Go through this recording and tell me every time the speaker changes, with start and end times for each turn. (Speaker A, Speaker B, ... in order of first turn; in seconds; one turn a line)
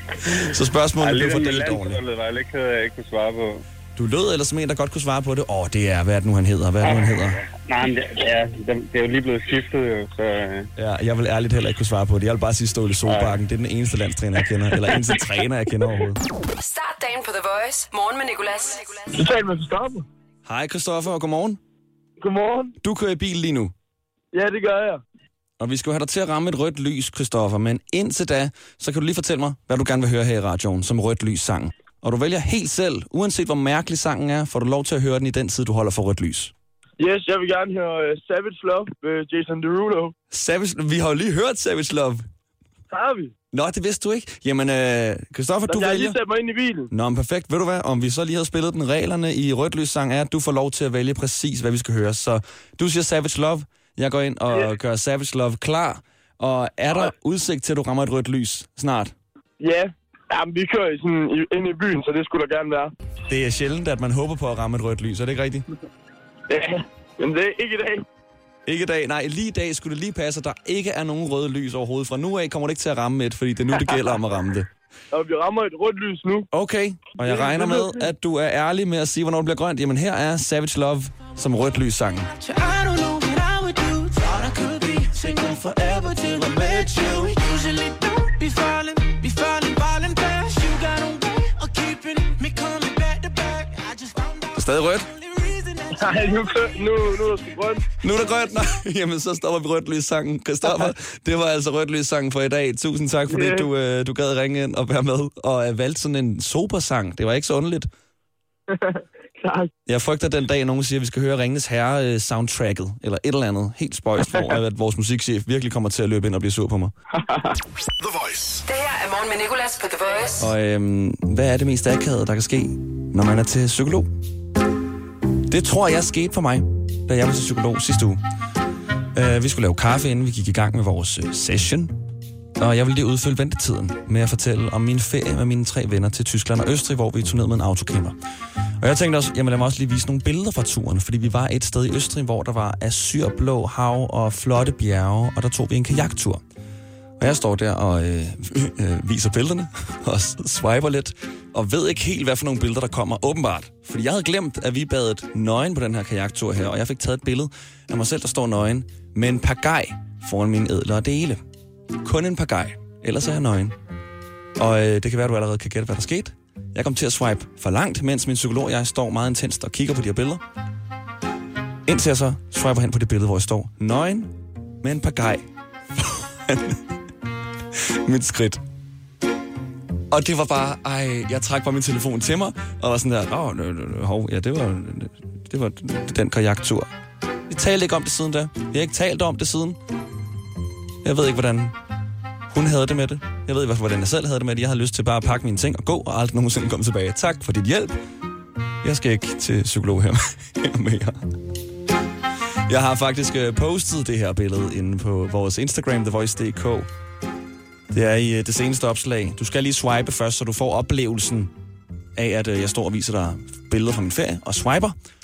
Speaker A: 0.3-2.0
Speaker B: 1.0-3.6
Speaker A: 4.0-7.4
Speaker B: 6.8-10.7
Speaker A: 10.8-16.2
Speaker B: 13.1-13.3
Speaker C: 16.6-19.1
Speaker D: 19.1-20.0
Speaker A: 20.4-21.6
Speaker D: 22.2-22.7
Speaker A: 22.8-23.7
Speaker D: 24.3-25.0
Speaker A: 25.6-36.5
Speaker D: 37.0-40.1
Speaker A: 40.3-42.2
Speaker D: 42.9-43.3
Speaker A: 43.5-46.1
Speaker D: 45.7-46.9
Speaker A: 46.9-59.1
Speaker D: 59.6-62.9
Speaker A: 63.3-65.7
Speaker D: 66.5-68.0
Speaker A: 68.7-74.7
Speaker D: 75.1-76.5
Speaker A: 76.5-82.3
Speaker D: 77.2-77.9
Speaker E: 82.4-96.4
Speaker A: 94.5-95.1
Speaker D: 95.9-97.8
Speaker A: 98.0-107.9
Speaker D: 103.3-103.7
Speaker D: 109.4-109.7
Speaker A: 109.8-116.9
Speaker C: 118.6-120.5
Speaker A: 120.4-124.1
Speaker A: 125.5-128.2
Speaker A: 129.1-131.9
Speaker A: 132.6-138.2
Speaker A: 138.8-146.4
Speaker A: 147.2-161.4
Speaker A: 162.0-163.7
Speaker A: 164.6-170.4
Speaker A: 171.8-176.8
Speaker A: 177.7-178.6
Speaker A: 180.1-186.9
Speaker A: 187.5-189.8
Speaker A: 191.0-191.7
Speaker A: 192.5-198.0
Speaker A: 198.8-201.2
Speaker A: 202.7-206.9
Speaker A: 207.9-211.5
Speaker A: 212.2-214.9